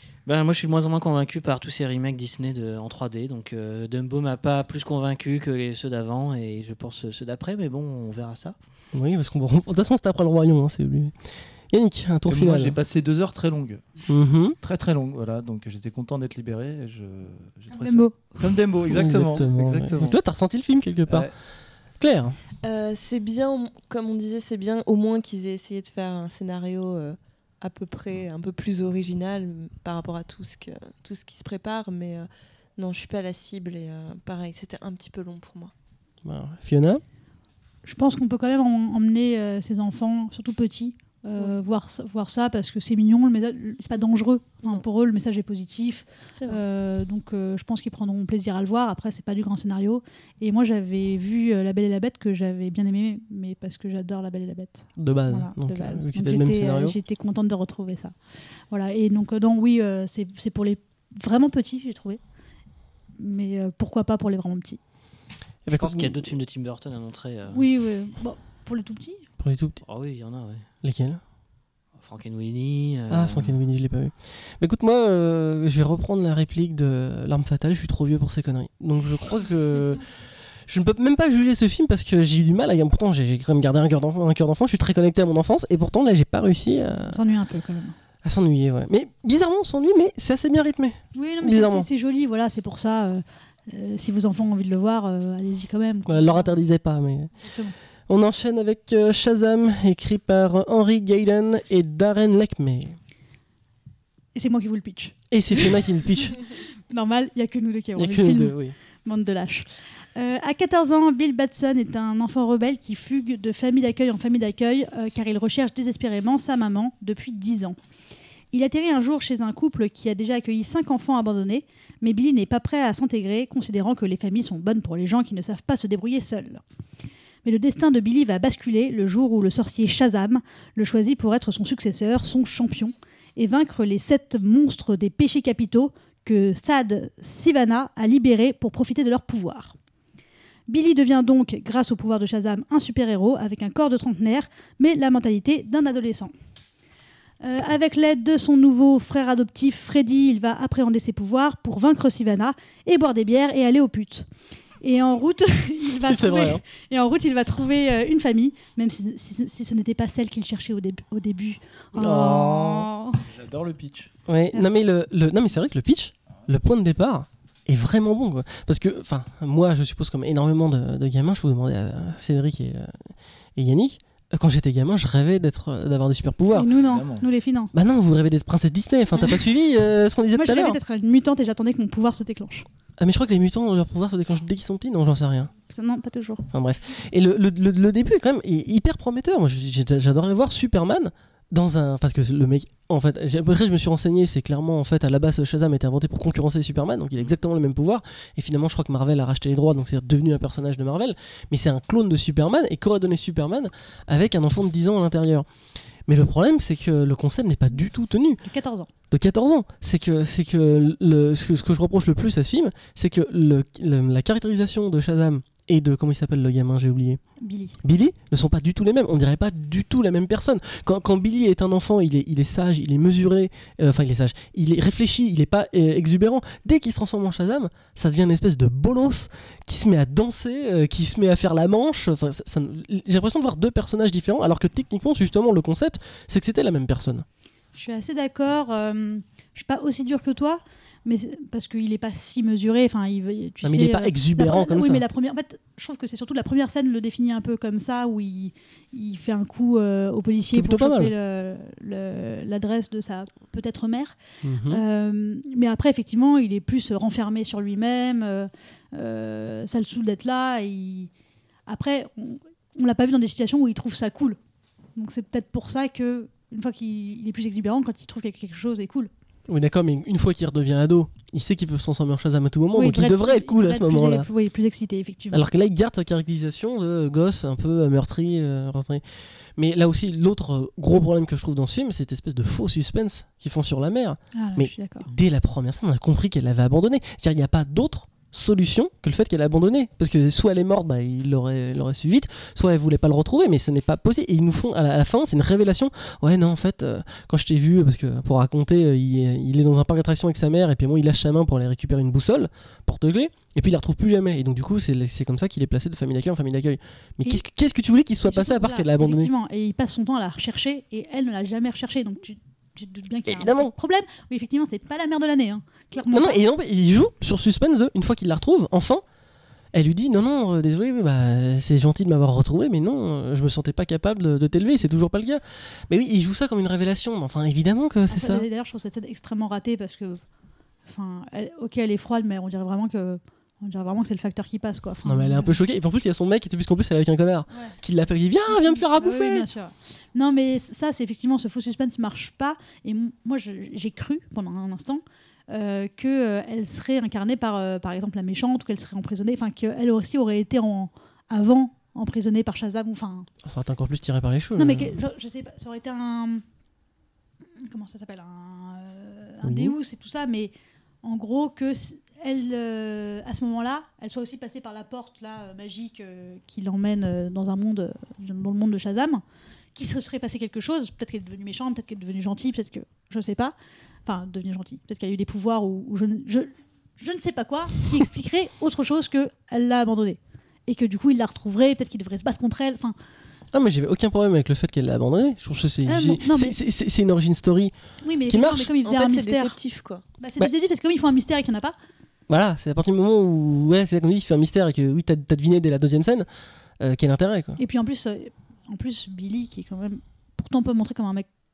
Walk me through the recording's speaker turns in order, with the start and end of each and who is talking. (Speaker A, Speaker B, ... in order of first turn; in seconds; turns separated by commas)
Speaker A: 0.3-8.6, Speaker B: 8.9-12.8, Speaker C: 12.3-13.8, Speaker B: 14.1-14.6, Speaker C: 14.6-20.2, Speaker D: 17.7-18.2, Speaker B: 18.9-21.3, Speaker C: 21.1-21.3, Speaker B: 22.0-22.4, Speaker E: 22.6-35.7, Speaker B: 36.2-37.0, Speaker D: 37.8-58.1, Speaker E: 41.4-41.6, Speaker B: 55.0-57.0, Speaker D: 58.7-62.2, Speaker D: 63.2-64.8, Speaker B: 65.7-66.3, Speaker A: 65.7-67.6, Speaker D: 67.5-69.2, Speaker B: 69.4-69.8, Speaker A: 69.9-70.7, Speaker B: 70.8-71.2, Speaker A: 72.0-73.5, Speaker B: 73.1-80.1, Speaker B: 80.7-87.2, Speaker D: 87.1-88.0, Speaker B: 88.2-91.9, Speaker D: 91.2-96.5, Speaker B: 96.1-97.3, Speaker D: 97.4-97.8, Speaker B: 98.1-103.0, Speaker D: 104.3-117.8, Speaker B: 105.3-106.4, Speaker B: 108.0-108.8, Speaker D: 118.5-126.6, Speaker D: 127.5-139.8, Speaker D: 140.7-146.3, Speaker D: 147.4-154.3, Speaker D: 154.8-163.2, Speaker B: 156.1-156.6, Speaker B: 161.9-162.9, Speaker C: 163.2-164.1, Speaker B: 164.3-176.7, Speaker D: 164.5-164.8, Speaker D: 176.5-177.7, Speaker C: 176.8-177.3, Speaker B: 177.7-180.8, Speaker D: 179.1-179.5, Speaker D: 180.3-182.7, Speaker B: 183.0-185.5, Speaker D: 185.7-186.5, Speaker B: 186.5-205.5, Speaker B: 206.1-208.4, Speaker D: 208.4-208.9, Speaker B: 209.1-217.2, Speaker D: 217.4-217.8, Speaker B: 217.8-237.3, Speaker D: 237.8-254.2, Speaker B: 243.6-245.1, Speaker B: 250.5-251.1, Speaker B: 254.4-254.8, Speaker D: 254.7-261.1, Speaker D: 261.7-264.4, Speaker D: 265.0-269.1, Speaker B: 269.5-274.3, Speaker D: 272.7-275.5, Speaker B: 275.3-279.0, Speaker B: 279.6-309.3, Speaker D: 284.4-285.1, Speaker D: 308.2-316.4, Speaker B: 313.3-313.7, Speaker B: 316.1-319.0, Speaker B: 319.7-328.5, Speaker D: 328.1-330.2, Speaker D: 330.9-335.6, Speaker B: 335.0-339.5, Speaker D: 337.5-337.8, Speaker D: 338.5-353.3, Speaker B: 353.4-355.0, Speaker D: 354.6-356.4, Speaker D: 357.6-369.2, Speaker B: 359.4-359.8, Speaker D: 369.8-373.5, Speaker D: 374.1-382.9, Speaker B: 383.5-387.7, Speaker D: 385.9-386.6, Speaker D: 388.0-389.6, Speaker B: 388.3-388.7, Speaker E: 388.8-390.0, Speaker D: 390.2-391.8, Speaker B: 392.3-396.3, Speaker B: 396.8-397.6, Speaker D: 397.6-401.3